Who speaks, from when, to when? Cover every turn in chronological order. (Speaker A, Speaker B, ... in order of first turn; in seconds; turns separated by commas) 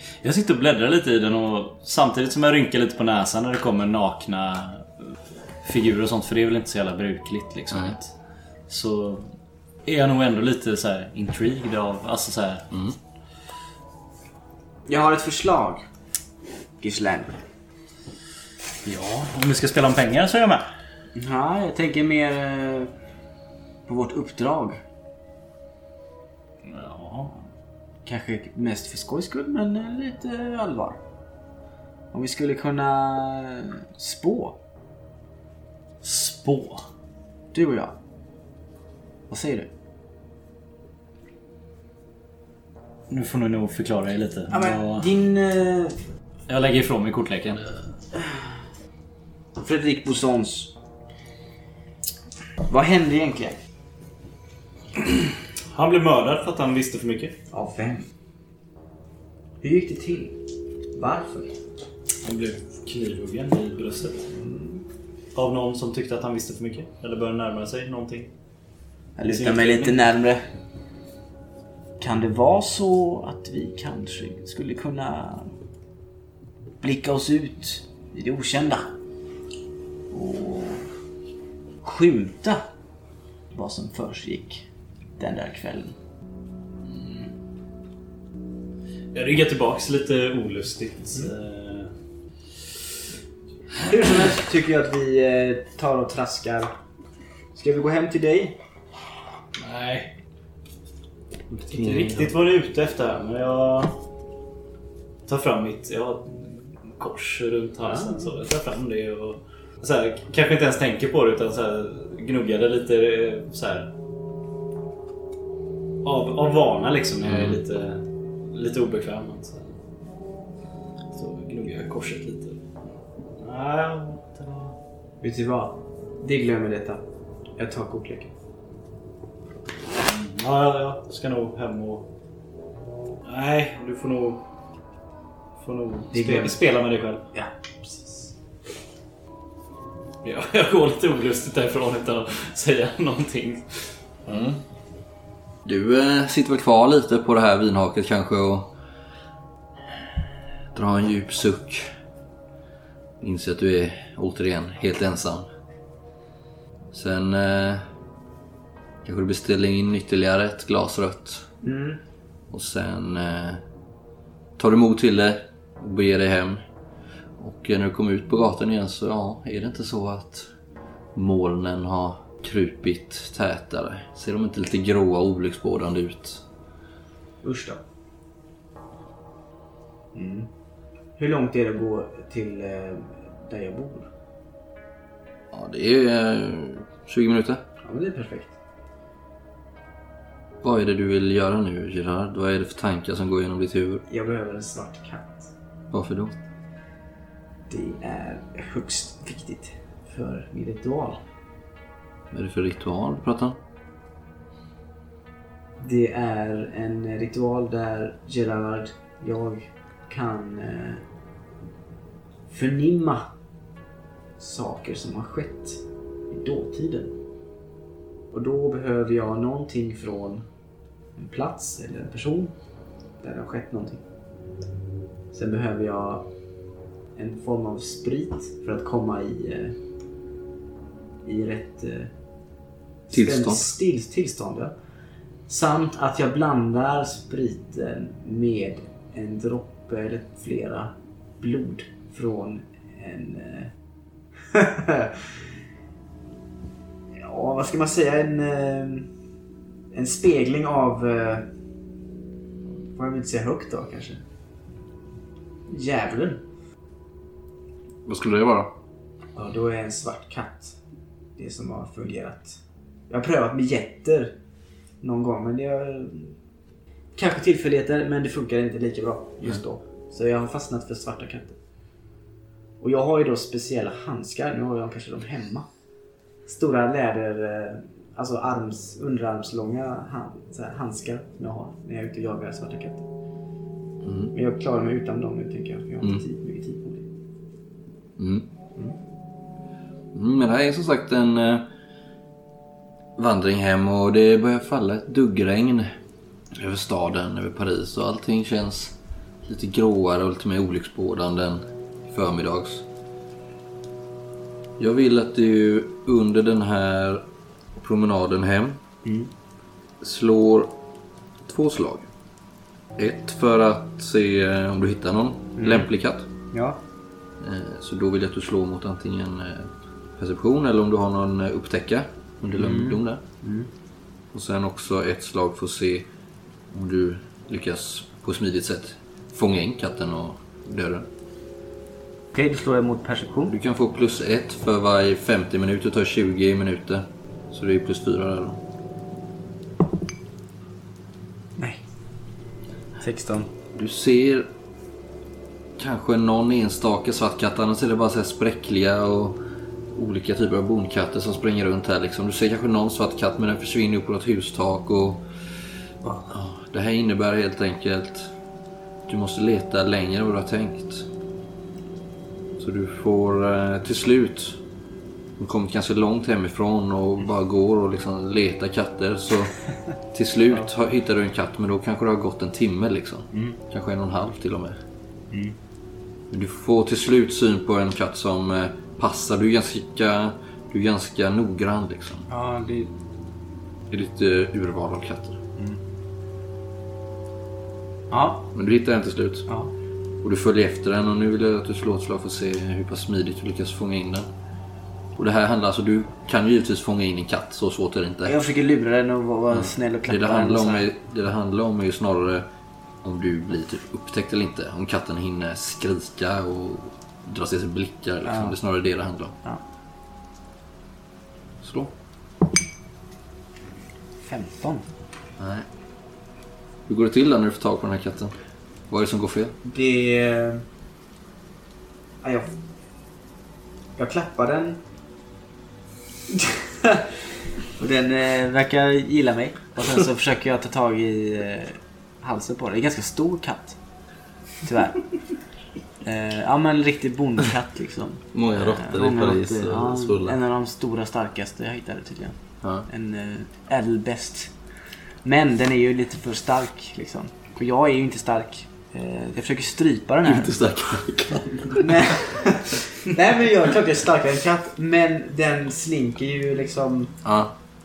Speaker A: 0.2-5.1, Speaker A: 5.6-8.1, Speaker A: 8.7-9.3, Speaker A: 9.8-12.7, Speaker B: 12.7-13.0, Speaker C: 14.9-15.8, Speaker C: 16.8-17.4, Speaker A: 18.8-20.6, Speaker C: 21.1-22.9, Speaker C: 23.9-24.8, Speaker A: 26.6-27.4, Speaker C: 28.1-31.0, Speaker C: 32.1-34.6, Speaker A: 36.0-36.9, Speaker C: 37.5-37.9, Speaker C: 39.3-39.7, Speaker A: 43.1-45.1, Speaker C: 44.5-46.0, Speaker A: 46.5-47.8, Speaker C: 49.5-50.7, Speaker C: 52.6-53.6, Speaker A: 55.7-57.4, Speaker C: 57.5-58.0, Speaker C: 59.6-60.4, Speaker C: 60.9-61.5, Speaker A: 62.2-64.3, Speaker C: 64.3-64.8, Speaker A: 65.3-68.3, Speaker C: 69.2-70.5, Speaker A: 69.2-70.0, Speaker C: 72.0-75.5, Speaker C: 76.8-78.9, Speaker C: 80.1-80.9, Speaker C: 81.8-82.6, Speaker C: 83.5-86.0, Speaker A: 86.9-87.3, Speaker A: 89.1-91.9, Speaker C: 93.8-96.7, Speaker C: 97.5-98.6, Speaker A: 99.5-100.1, Speaker B: 101.5-102.3, Speaker A: 101.7-104.0, Speaker A: 105.2-113.9, Speaker C: 107.9-108.2, Speaker A: 116.0-119.8, Speaker B: 117.2-117.6, Speaker A: 121.1-122.6, Speaker A: 123.4-124.8, Speaker C: 125.2-127.0, Speaker C: 127.6-128.3, Speaker A: 129.9-132.1, Speaker A: 133.2-134.4, Speaker A: 135.6-137.3, Speaker C: 136.1-136.6, Speaker A: 137.9-138.2, Speaker A: 140.2-143.9, Speaker B: 144.3-144.6, Speaker B: 145.6-148.7, Speaker B: 150.7-151.8, Speaker B: 153.2-155.5, Speaker B: 156.9-157.8, Speaker B: 159.0-161.4, Speaker C: 161.6-162.0, Speaker B: 162.5-163.6, Speaker B: 164.6-166.6, Speaker B: 167.4-170.5, Speaker B: 171.1-176.4, Speaker C: 177.4-177.8, Speaker C: 180.1-180.5, Speaker C: 181.2-184.1, Speaker B: 185.5-187.6, Speaker C: 187.8-188.5, Speaker B: 190.6-194.0, Speaker C: 194.1-195.5, Speaker B: 195.9-196.3, Speaker C: 197.7-201.2, Speaker B: 202.3-203.6, Speaker C: 205.8-211.0, Speaker C: 212.5-213.3, Speaker C: 214.4-217.1, Speaker C: 218.3-220.4, Speaker C: 221.2-222.5, Speaker C: 223.2-224.0, Speaker C: 225.3-226.3, Speaker C: 227.1-229.8, Speaker C: 231.2-232.1, Speaker C: 233.1-234.7, Speaker B: 233.1-233.7, Speaker C: 235.5-243.7, Speaker C: 244.5-245.3, Speaker C: 247.2-249.1, Speaker C: 249.9-251.5, Speaker C: 252.9-254.2, Speaker C: 255.7-256.4, Speaker B: 258.1-258.7, Speaker C: 259.4-260.8, Speaker C: 261.4-264.4, Speaker C: 265.0-266.4, Speaker C: 267.1-271.6, Speaker C: 272.8-275.7, Speaker C: 276.4-283.1, Speaker B: 284.0-284.3, Speaker C: 284.3-287.1, Speaker B: 288.2-288.4, Speaker B: 290.1-291.7, Speaker B: 293.2-295.9, Speaker B: 296.5-302.9, Speaker B: 304.8-307.2, Speaker B: 307.8-308.8, Speaker C: 309.0-309.3, Speaker B: 310.0-310.7, Speaker B: 311.4-312.1, Speaker B: 312.9-316.3, Speaker C: 315.6-315.9, Speaker C: 316.5-316.8, Speaker B: 317.4-323.2, Speaker C: 322.5-323.7, Speaker B: 324.3-326.1, Speaker B: 326.7-331.1, Speaker C: 332.3-333.5, Speaker B: 333.5-338.6, Speaker C: 343.0-343.5, Speaker B: 343.7-344.5, Speaker B: 345.8-349.4, Speaker B: 349.9-355.2, Speaker B: 356.2-358.3, Speaker B: 359.1-361.1, Speaker B: 362.6-364.6, Speaker B: 365.4-369.5, Speaker B: 370.1-374.8, Speaker C: 373.3-373.6, Speaker C: 375.3-375.6, Speaker B: 376.3-382.3, Speaker C: 382.3-382.9, Speaker B: 383.9-385.4, Speaker C: 388.1-388.5, Speaker B: 388.5-389.5, Speaker B: 390.2-394.3, Speaker B: 395.1-398.4, Speaker C: 398.2-400.9, Speaker B: 399.5-402.5, Speaker B: 403.0-409.4, Speaker C: 408.2-408.5, Speaker B: 411.6-411.9, Speaker C: 414.2-414.9, Speaker B: 415.4-415.6, Speaker B: 416.9-418.3, Speaker B: 418.9-419.5, Speaker C: 419.6-420.6, Speaker C: 422.2-422.5, Speaker C: 424.0-424.8, Speaker C: 426.4-427.1, Speaker C: 427.8-433.8, Speaker C: 434.6-435.0, Speaker C: 436.0-442.4, Speaker D: 438.3-440.3, Speaker C: 442.9-444.5, Speaker C: 445.2-450.5, Speaker D: 450.2-451.8, Speaker C: 451.7-457.1, Speaker B: 457.2-457.5